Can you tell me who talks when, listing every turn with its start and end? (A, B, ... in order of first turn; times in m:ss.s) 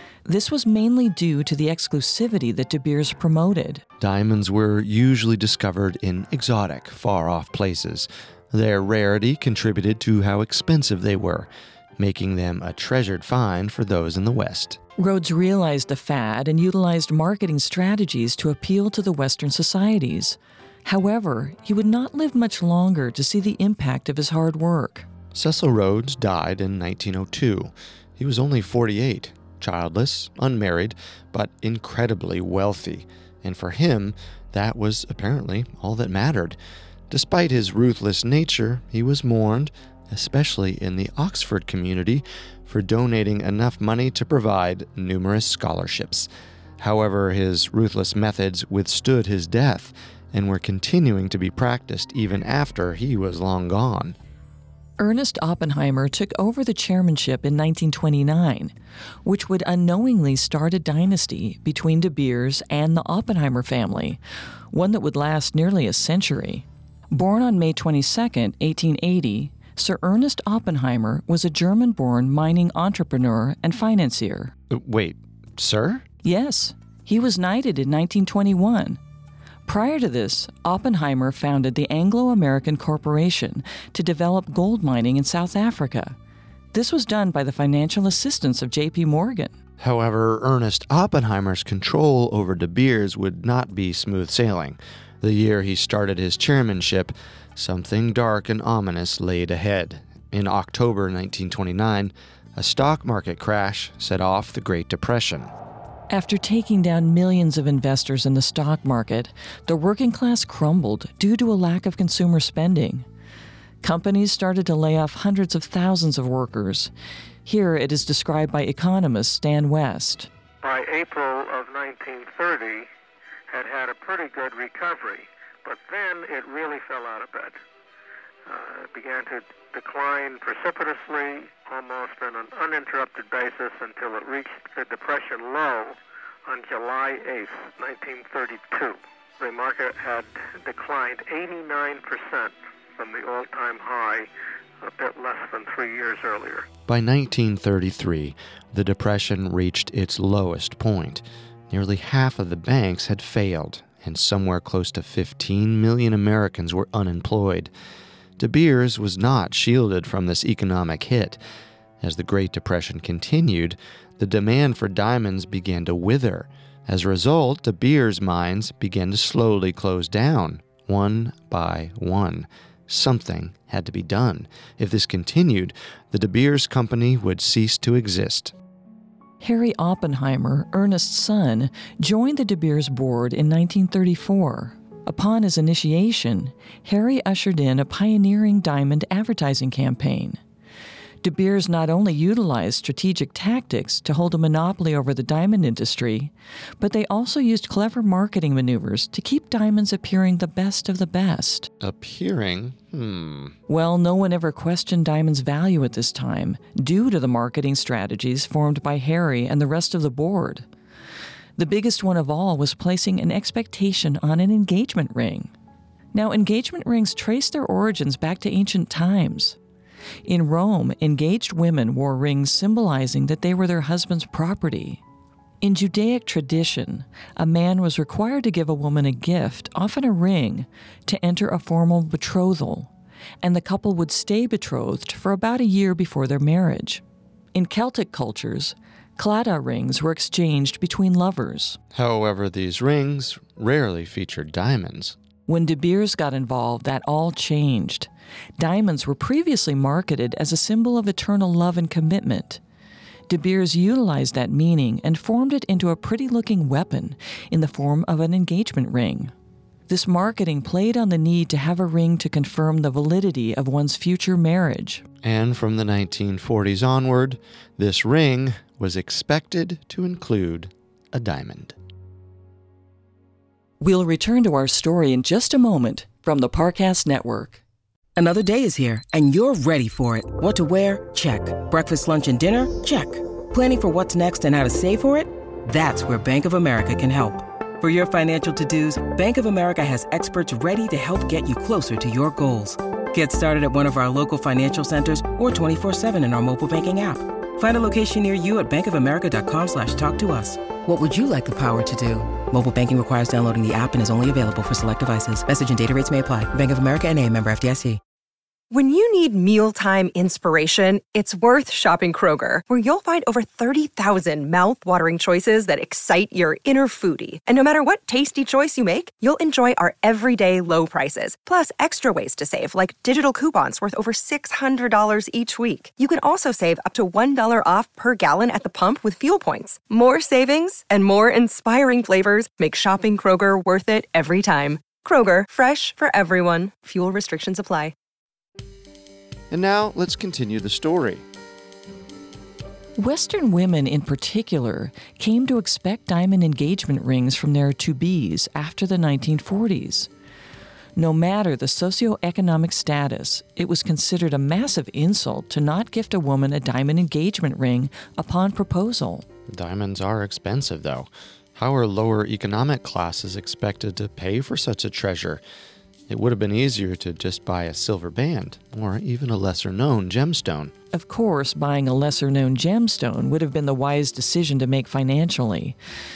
0:00.3-0:03.8 A
0:04.0-0:14.8 B
0:15.0-0:25.1 A
0:25.3-0:36.6 B
0:37.1-0:46.3 B
0:46.8-0:54.2 B
0:55.0-0:58.7 A
0:59.2-1:04.2 A
1:04.7-1:14.5 A
1:14.7-1:16.0 B
1:16.2-1:19.0 A
1:19.7-1:26.2 A
1:26.7-1:29.6 A
1:29.8-1:45.5 B
1:46.1-1:53.1 A
1:53.8-1:56.9 A
1:57.4-2:00.3 A
2:00.6-2:02.9 C
2:03.5-2:07.6 C
2:08.5-2:24.3 C
2:24.8-2:26.7 C
2:26.9-2:37.7 B
2:38.4-2:41.4 B
2:42.0-2:58.5 B
2:59.4-3:10.4 A
3:11.2-3:21.7 A
3:21.8-3:23.6 B
3:23.7-3:30.7 A
3:31.6-3:35.5 A
3:36.1-3:39.6 A
3:40.3-3:45.0 A
3:45.6-3:52.9 A
3:53.4-3:57.0 A
3:57.5-4:01.8 A
4:01.9-4:05.2 B
4:05.5-4:12.6 A
4:13.3-4:19.3 A
4:19.9-4:25.0 A
4:25.2-4:31.8 B
4:33.8-4:37.6 A
4:38.2-5:08.0 D
5:08.7-5:37.9 E
5:39.5-5:41.2 B
5:43.0-5:50.1 A
5:51.0-5:59.2 A
5:59.5-6:05.4 B
6:06.1-6:10.7 B
6:10.9-6:15.8 A